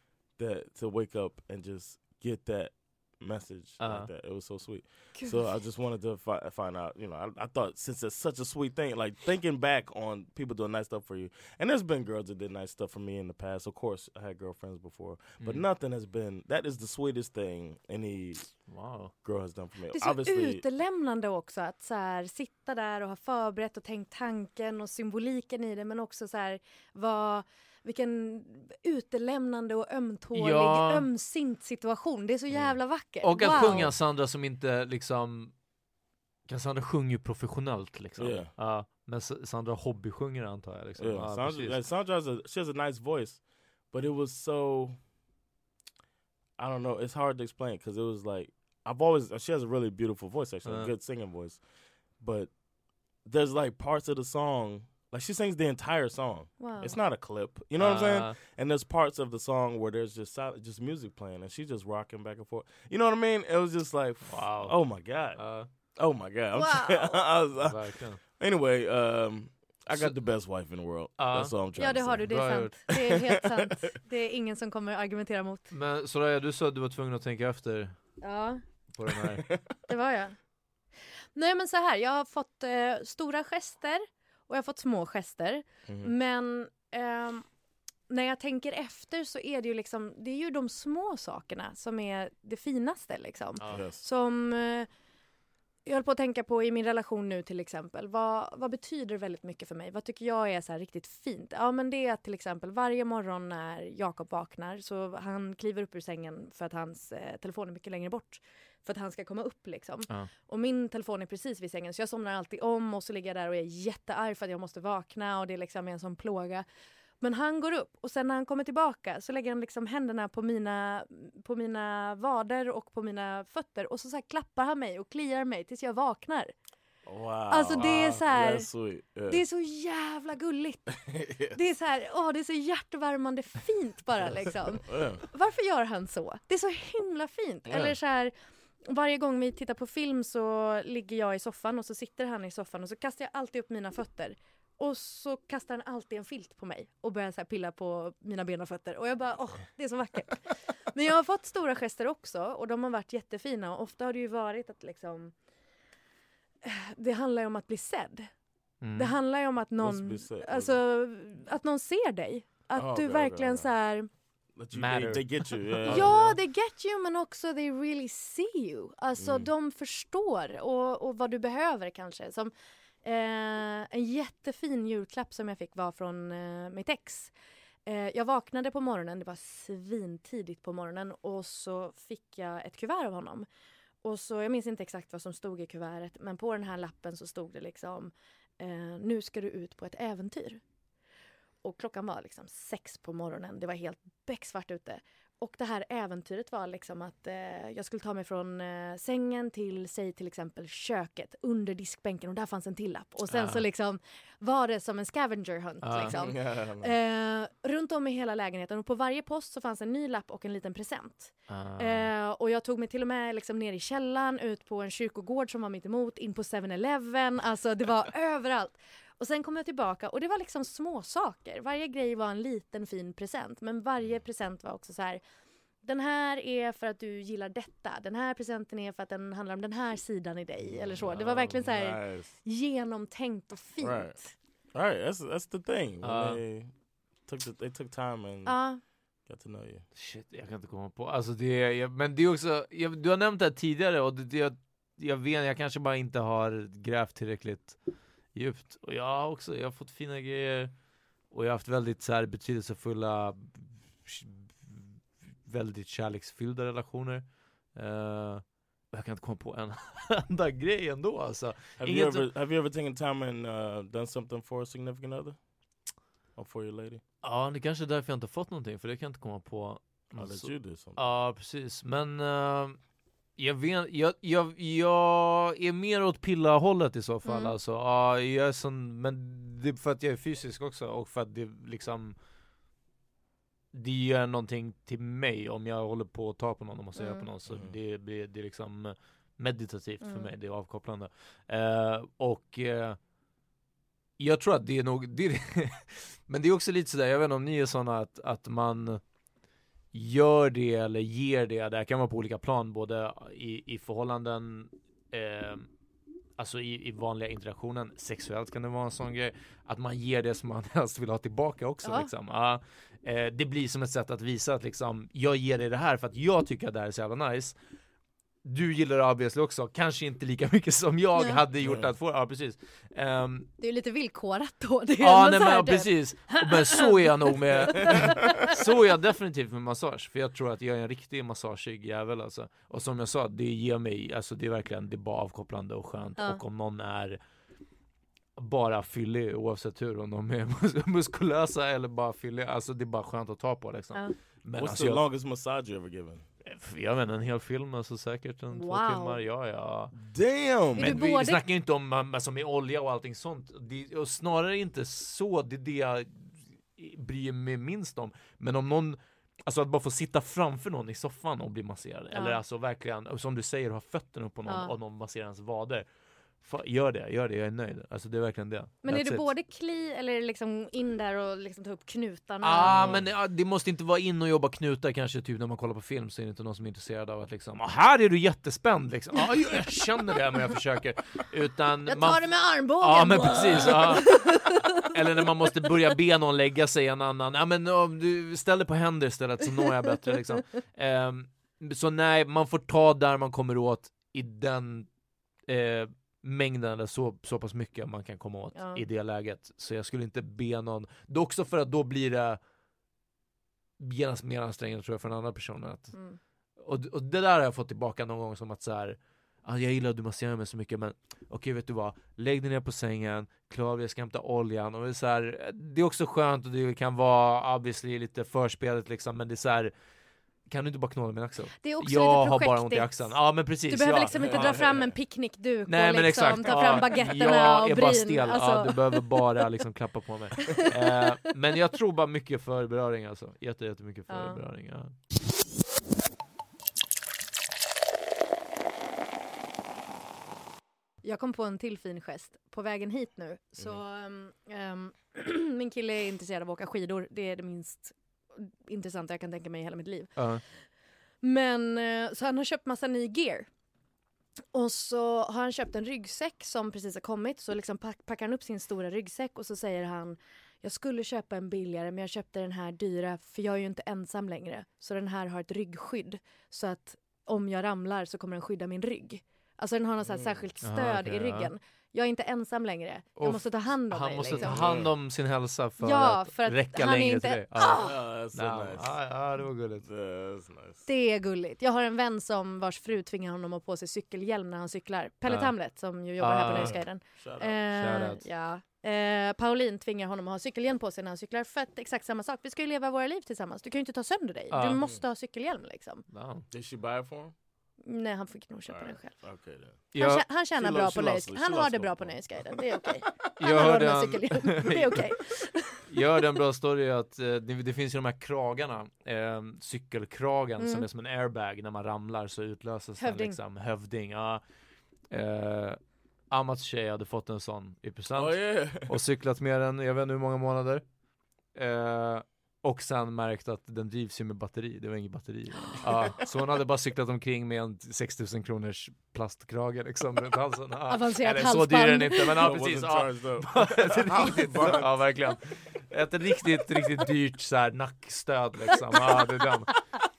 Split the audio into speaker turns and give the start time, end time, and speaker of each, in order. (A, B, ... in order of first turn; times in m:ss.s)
0:00.3-0:18.7 A
0:03.8-0:04.1 B
0:15.4-0:15.6 B
0:18.7-0:19.1 B
0:19.2-0:20.6 A
0:19.9-0:33.9 C
0:30.3-0:31.1 B
0:32.5-0:34.0 A
0:33.2-0:35.5 B
0:36.5-0:41.8 B
0:38.2-0:38.5 A
0:41.0-0:45.0 A
0:46.6-0:52.5 A
0:50.6-0:50.9 B
0:53.2-1:13.7 A
0:56.6-0:57.0 C
0:57.8-0:58.4 B
1:04.3-1:05.7 B
1:06.5-1:07.2 C
1:07.6-1:08.2 B
1:11.2-1:11.5 B
1:11.8-1:15.6 C
1:12.2-1:12.8 B
1:15.7-1:18.0 B
1:18.2-1:18.6 C
1:18.9-1:19.4 B
1:19.4-1:19.7 A
1:19.9-1:20.4 C
1:21.3-1:27.4 C
1:25.9-1:26.1 A
1:28.1-1:34.9 C
1:33.6-1:33.8 B
1:33.7-1:34.0 A
1:35.8-1:56.6 C
1:57.2-2:06.5 C
2:07.0-2:09.4 A
2:07.5-2:08.7 C
2:07.7-2:08.2 B
2:09.3-2:11.0 C
2:11.1-2:11.6 A
2:11.5-2:18.3 C
2:14.8-2:15.2 A
2:17.7-2:18.0 A
2:18.8-2:35.3 C
2:36.6-2:38.3 C
2:38.8-2:39.1 B
2:38.9-2:44.1 C
2:39.8-2:40.8 A
2:42.7-2:43.7 A
2:44.5-2:46.3 A
2:44.7-2:46.3 B
2:45.9-2:52.5 C
2:49.2-2:49.5 A
2:53.0-2:57.3 C
2:57.8-3:03.5 C
3:04.0-3:10.6 C
3:11.6-3:45.2 C
3:23.3-3:23.6 B
3:25.8-3:26.2 B
3:26.1-3:26.9 A
3:31.5-3:32.1 B
3:45.8-3:54.3 C
3:50.9-3:51.6 B
3:51.6-3:52.4 A
3:53.8-3:54.2 A
3:54.7-3:59.8 A
3:56.0-3:56.4 B
3:58.4-3:58.8 C
3:59.9-4:22.3 B
4:21.8-4:27.0 A
4:27.2-4:32.8 B
4:30.1-4:31.0 A
4:33.4-4:42.2 B
4:37.2-4:37.6 C
4:43.7-4:53.0 B
4:47.0-4:47.3 C
4:47.5-4:47.8 A
4:50.0-4:50.3 C
4:54.2-4:59.0 B
4:59.9-5:05.7 B
5:06.4-5:17.6 B
5:11.8-5:12.1 C
5:18.4-5:23.5 B
5:21.6-5:21.9 A
5:23.6-5:28.4 C
5:25.0-5:37.2 B
5:38.4-5:45.0 B
5:44.5-5:46.2 A
5:46.4-5:49.9 B
5:48.5-5:49.2 C
5:49.9-5:51.0 A
5:50.8-5:51.4 C
5:50.8-6:05.9 B
6:02.1-6:02.4 C
6:04.5-6:04.7 C
6:06.4-6:09.3 B
6:08.8-6:13.0 C
6:12.4-6:34.9 B
6:12.6-6:13.1 A
6:21.9-6:24.8 C
6:35.5-6:42.4 B
6:38.5-6:38.8 C
6:43.8-6:46.0 B
6:45.9-6:46.2 C
6:46.6-6:59.7 B
7:00.5-7:04.7 B
7:01.6-7:09.6 C
7:04.1-7:05.0 A
7:05.6-7:14.9 B
7:10.5-7:11.0 C
7:14.1-7:14.4 C
7:21.0-7:30.5 C
7:30.2-7:30.4 B
7:31.2-7:33.5 C
7:34.5-7:54.6 C
7:50.0-7:50.5 A
7:50.6-7:51.5 B
7:53.2-7:59.9 B
7:54.3-7:54.9 A
7:55.8-7:58.0 C
7:57.7-7:59.0 A
7:59.8-8:00.8 A
8:00.8-8:16.1 C
8:05.3-8:05.6 B
8:06.2-8:06.8 B
8:06.5-8:07.6 A
8:07.7-8:08.2 B
8:14.5-8:14.8 B
8:16.1-8:16.5 B
8:16.5-8:17.3 A
8:17.8-8:19.2 C
8:18.7-8:19.9 A
8:19.9-8:26.2 C
8:19.9-8:20.2 B
8:20.5-8:22.6 A
8:23.4-8:25.1 B
8:25.9-8:34.4 B
8:30.6-8:30.8 C
8:33.0-8:33.4 C
8:35.1-8:40.8 B
8:38.1-8:39.0 A
8:41.5-8:59.8 B
8:50.9-8:52.4 C
8:52.4-8:55.0 A